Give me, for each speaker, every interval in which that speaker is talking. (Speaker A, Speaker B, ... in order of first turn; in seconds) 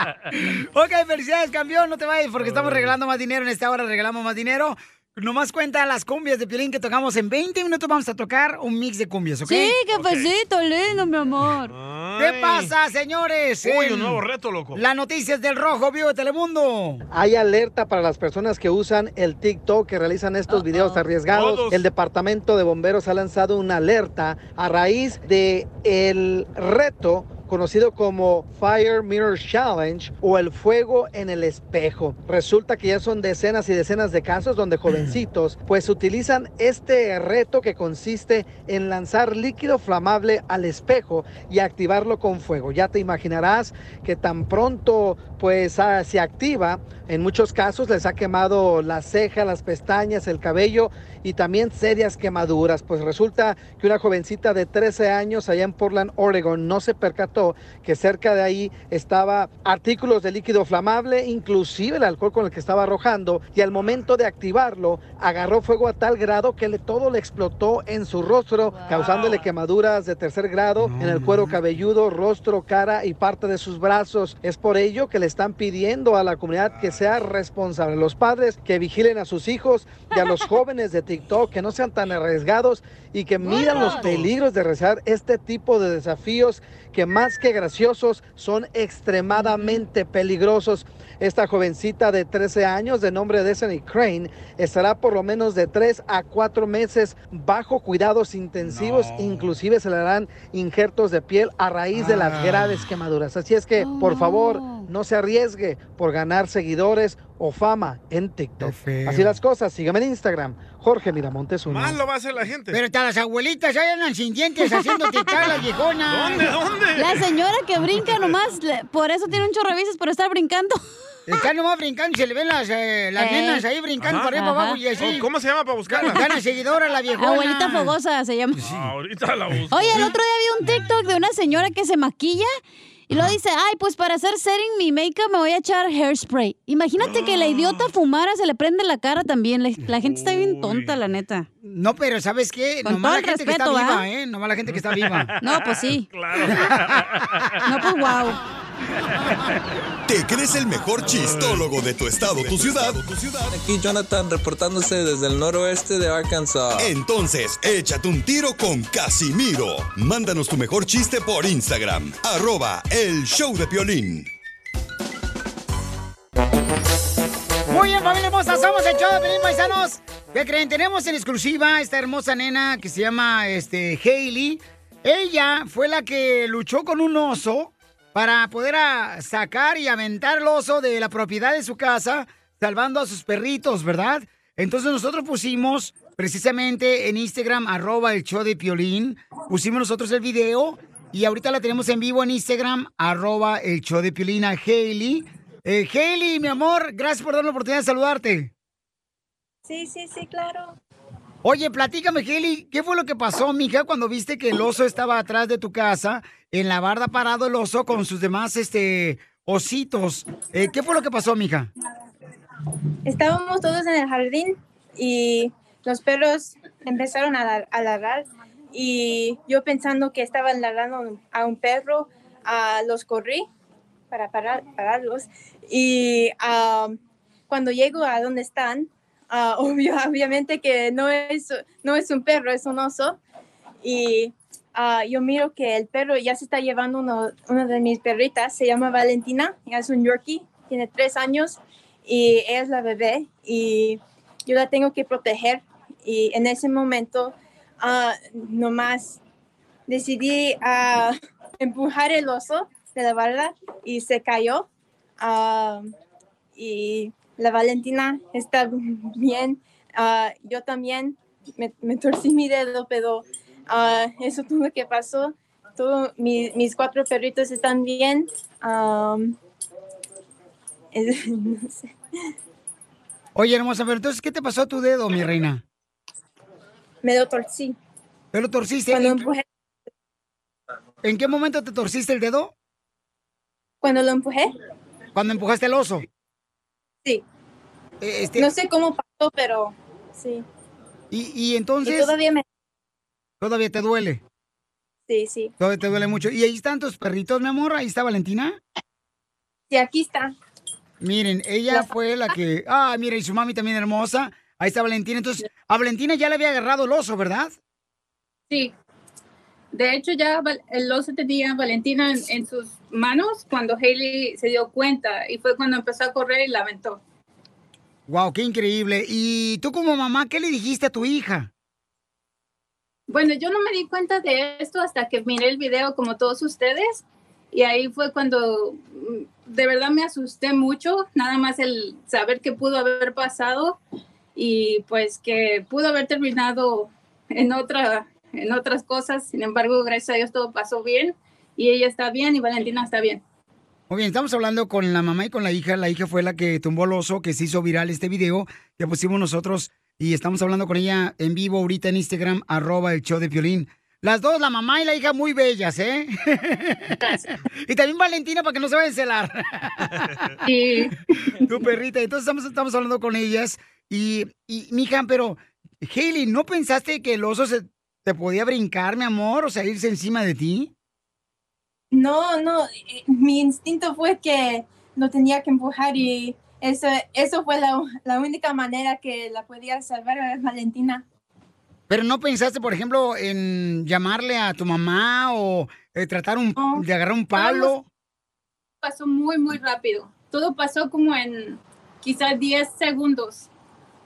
Speaker A: 0.3-9.8, 12.2-14.2, 14.7-17.0, 70.8-71.6, 98.6-99.5, 101.9-102.8, 108.6-109.4, 112.7-116.5, 121.2-125.3, 125.9-127.9, 128.5-128.8, 141.6-145.3, 146.5-146.7, 167.7-198.5, 201.4-211.7, 273.3-275.6, 278.3-279.2, 281.0-282.5, 285.1-286.1, 288.0-288.5, 291.1-292.1, 293.4-294.2, 295.6-298.6, 301.0-307.5, 318.1-321.5, 343.9-360.1, 361.4-370.7, 381.9-387.8
Speaker B: 2.5-2.9, 9.9-10.3, 11.6-12.7, 13.6-14.8, 21.2-21.8, 68.9-69.5, 76.7-77.1, 83.9-84.2, 111.7-112.8, 116.1-117.3, 117.9-118.4, 124.0-124.3, 124.9-126.2, 128.6-130.2, 137.0-137.9, 140.0-141.0, 144.7-148.0, 151.1-151.7
Speaker C: 9.4-11.7, 20.5-21.0, 83.4-84.0, 103.9-104.8, 117.0-120.8, 123.2-123.6, 124.3-124.8, 127.2-128.6, 129.7-132.5, 133.1-141.4, 142.8-144.0, 145.4-146.1, 147.7-148.4
Speaker D: 17.1-112.0
Speaker E: 150.1-153.5, 156.8-164.3
Speaker F: 153.5-156.9
Speaker G: 199.7-200.8, 213.0-223.5, 224.1-227.0, 227.5-233.2, 233.8-249.2, 249.9-254.7, 255.2-255.9, 256.6-269.4, 270.9-271.9, 277.0-277.8, 278.9-279.4, 283.8-284.5, 288.4-290.4, 291.8-292.4, 295.1-295.5, 299.7-300.4, 371.9-381.0, 386.6-386.8
Speaker H: 309.7-317.0, 323.1-333.8, 334.3-343.2, 360.4-360.9, 387.4-387.7, 388.8-393.5